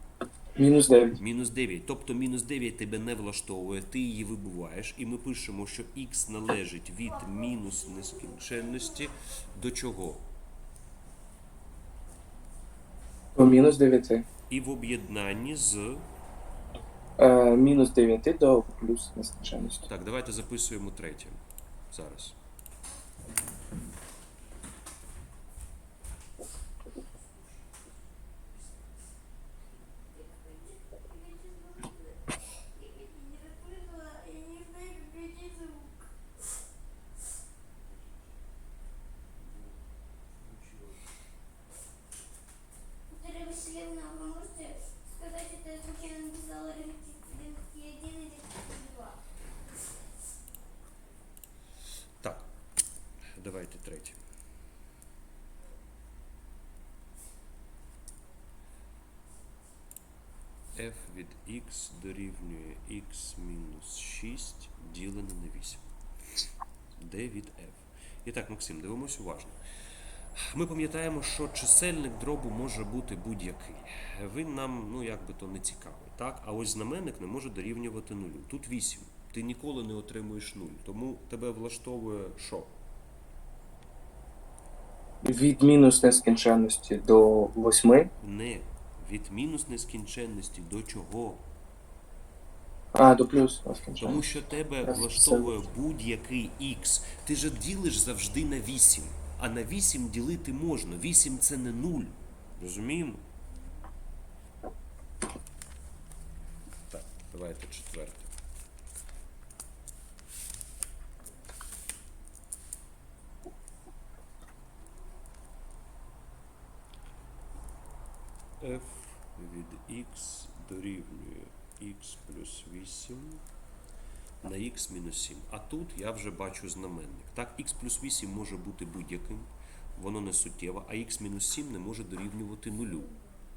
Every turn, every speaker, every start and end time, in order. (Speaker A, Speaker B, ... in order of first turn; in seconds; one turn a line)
Speaker A: 0.6-1.2
Speaker B: 1.2-10.3
Speaker C: 7.3-8.7
Speaker A: 13.3-14.2
Speaker B: 14.5-16.1
Speaker A: 17.2-19.9
Speaker B: 19.9-21.4
Speaker B: 21.9-22.4
Speaker C: 30.1-36.1
Speaker B: 40.5-40.9
Speaker C: 43.1-49.2
Speaker B: 52.2-52.5
Speaker B: 53.4-54.2
Speaker B: 60.7-65.8
Speaker B: 67.0-69.6
Speaker B: 70.3-82.7
Speaker A: 85.2-88.1
Speaker B: 88.2-91.5
Speaker A: 92.9-94.2
Speaker B: 94.0-103.2
Speaker A: 94.8-95.5
Speaker B: 106.9-108.3
Speaker B: 118.6-123.4
Speaker B: 124.4-133.1